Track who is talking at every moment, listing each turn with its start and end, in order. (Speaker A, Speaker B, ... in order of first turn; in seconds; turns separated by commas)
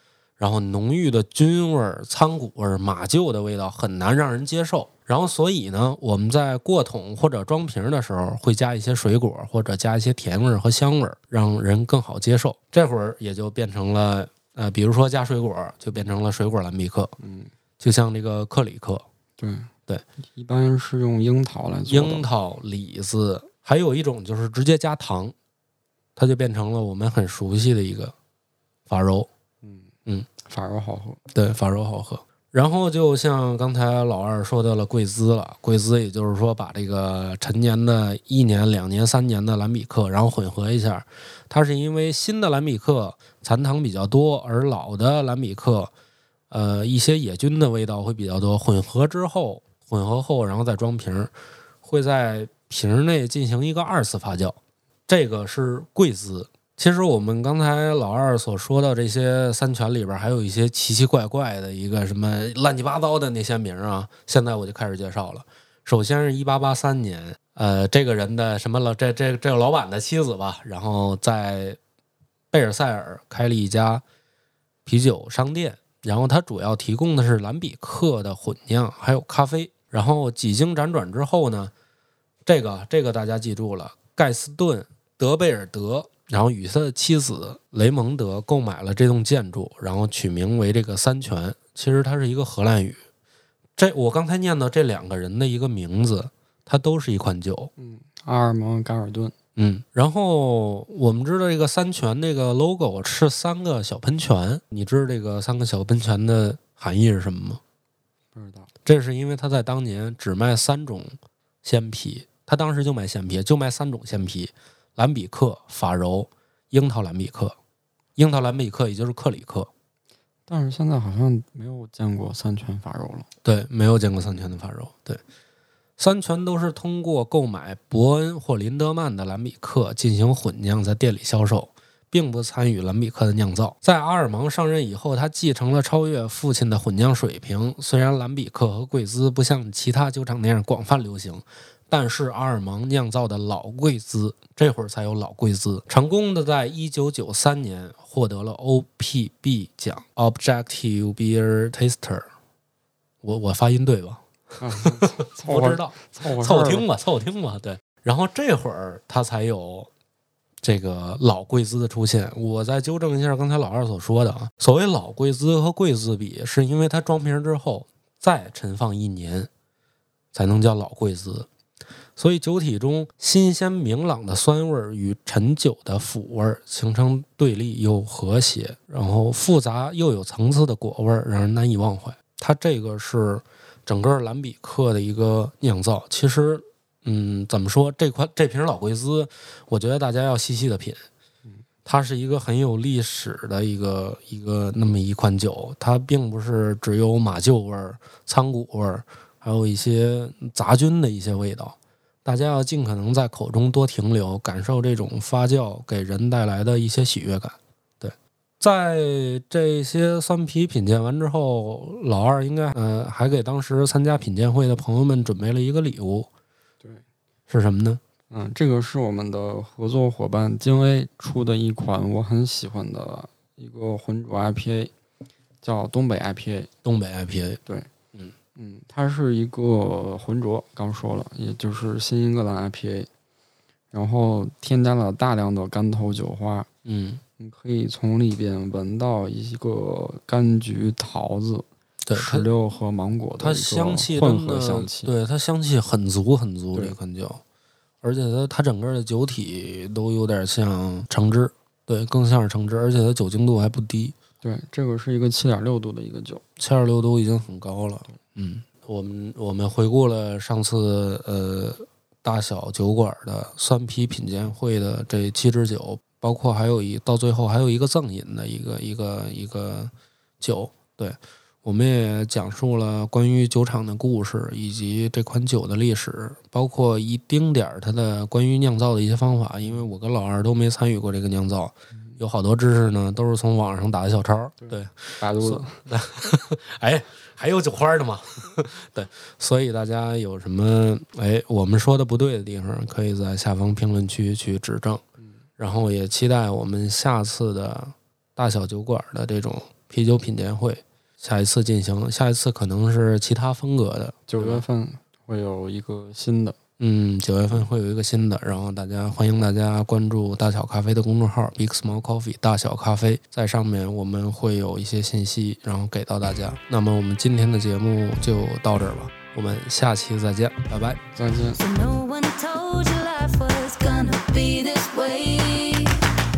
Speaker A: 0.4-17.1, Speaker B: 17.2-17.5, Speaker A: 17.8-19.0, Speaker B: 19.4-19.7, Speaker B: 20.3-22.3, Speaker A: 21.9-25.3, Speaker A: 26.1-28.1, Speaker A: 28.9-29.3, Speaker B: 29.6-31.2, Speaker A: 31.3-45.9, Speaker A: 46.5-51.3, Speaker A: 51.8-54.6, Speaker A: 55.1-71.8, Speaker A: 72.5-74.0, Speaker A: 74.8-81.7, Speaker A: 82.5-93.0, Speaker A: 93.8-97.7, Speaker B: 97.8-99.3, Speaker A: 99.5-107.6, Speaker B: 108.3-108.7, Speaker A: 108.8-117.5, Speaker A: 118.2-119.7, Speaker B: 120.5-123.3, Speaker A: 123.4-125.2, Speaker A: 126.0-152.3, Speaker A: 153.2-154.2, Speaker B: 154.6-156.9, Speaker A: 154.7-159.9, Speaker A: 160.6-169.5, Speaker A: 170.3-171.5, Speaker A: 172.2-191.1, Speaker A: 191.8-216.3, Speaker A: 217.5-218.0, Speaker B: 218.3-224.9, Speaker B: 225.6-226.7, Speaker A: 226.8-227.6, Speaker B: 228.5-233.1, Speaker B: 233.9-236.7, Speaker A: 236.8-237.2, Speaker B: 237.4-245.1, Speaker A: 242.0-242.5, Speaker A: 243.4-247.4, Speaker A: 248.0-254.1, Speaker B: 254.4-256.4, Speaker A: 256.6-295.0, Speaker B: 284.6-285.8, Speaker A: 295.6-304.6, Speaker B: 304.3-306.6, Speaker A: 306.8-321.0, Speaker B: 321.1-321.6, Speaker C: 321.6-326.1